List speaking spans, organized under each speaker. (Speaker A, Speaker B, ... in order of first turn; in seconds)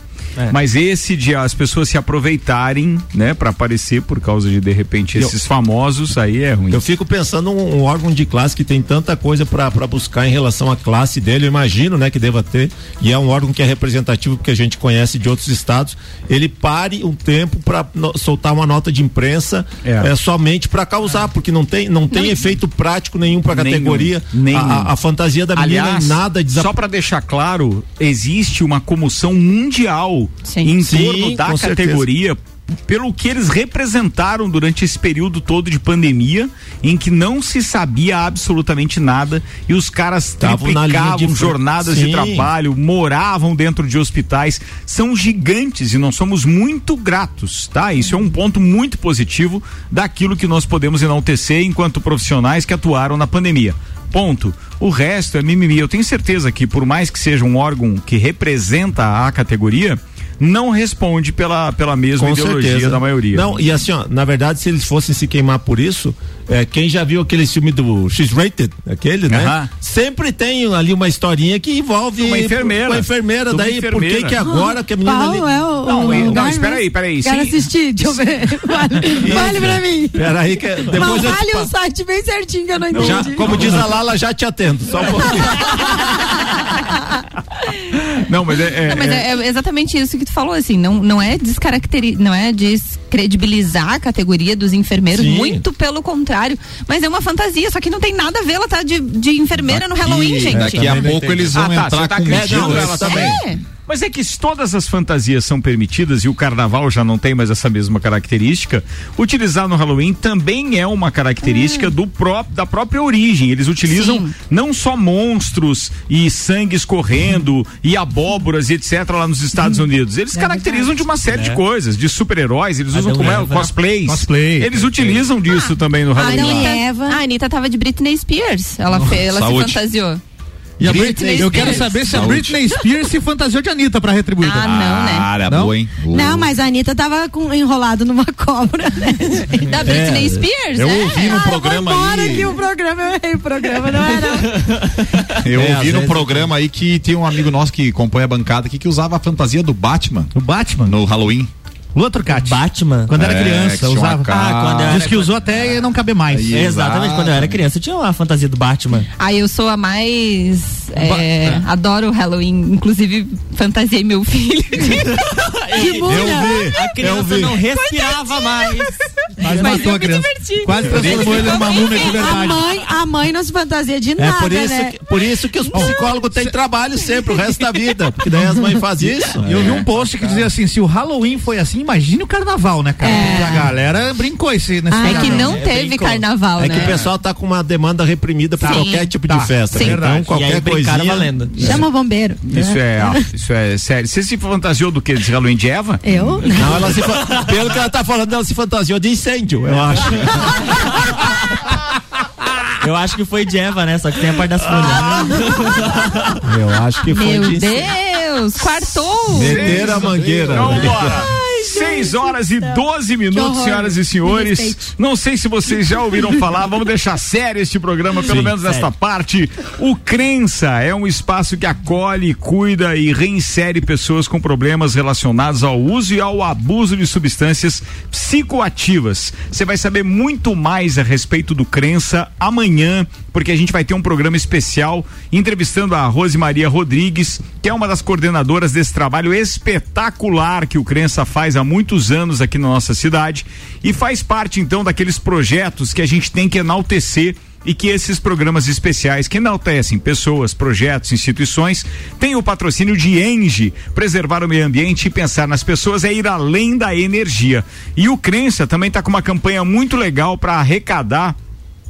Speaker A: 0.5-6.8, 19.8-20.1, 23.5-24.9, 25.6-63.6, 69.3-69.7, 72.2-74.4, 75.8-78.2, 82.9-83.8, 88.2-89.3, 101.5-126.8, 192.4-196.0, 209.4-261.4
Speaker B: 6.7-26.8, 30.8-32.1, 40.4-42.5, 62.2-76.5, 79.2-81.7, 83.0-85.7, 95.1-95.6, 100.5-101.6, 102.3-103.4, 130.8-131.9, 139.8-140.5, 145.5-146.5, 166.1-166.8, 174.2-179.5, 186.6-191.8, 196.4-200.8, 206.4-207.9, 209.2-211.2
Speaker C: 30.4-30.7, 88.8-101.2, 102.8-103.6, 113.9-114.3, 126.3-130.2, 131.0-131.9, 134.4-135.3, 139.7-141.2, 159.2-165.3, 166.8-168.9, 169.5-172.3, 183.0-183.7, 185.0-187.0, 188.6-189.1, 189.7-190.0, 207.1-209.8
Speaker D: 74.4-80.3, 80.9-83.8, 120.3-120.9, 126.2-127.2, 136.1-139.7, 141.1-144.7, 165.7-167.2, 169.6-170.0, 170.9-175.0, 175.6-176.1, 183.0-183.7, 184.9-185.6, 191.6-193.2, 196.0-197.1, 210.8-214.8
Speaker E: 99.6-103.3, 129.2-129.8, 130.8-132.7, 134.6-136.5, 140.8-142.6, 145.4-150.3, 150.8-151.5, 153.1-157.6, 179.4-180.4
Speaker F: 122.9-123.7, 144.3-144.8, 152.3-153.3, 154.3-155.0, 156.5-159.1, 165.7-168.9, 185.5-186.2, 190.3-191.8, 202.8-206.4, 218.3-218.9
Speaker G: 124.1-124.8, 130.8-134.8, 135.4-135.8, 150.3-151.0, 151.9-156.5, 160.9-161.6, 169.4-172.7, 178.3-178.7, 179.4-185.6, 188.6-190.3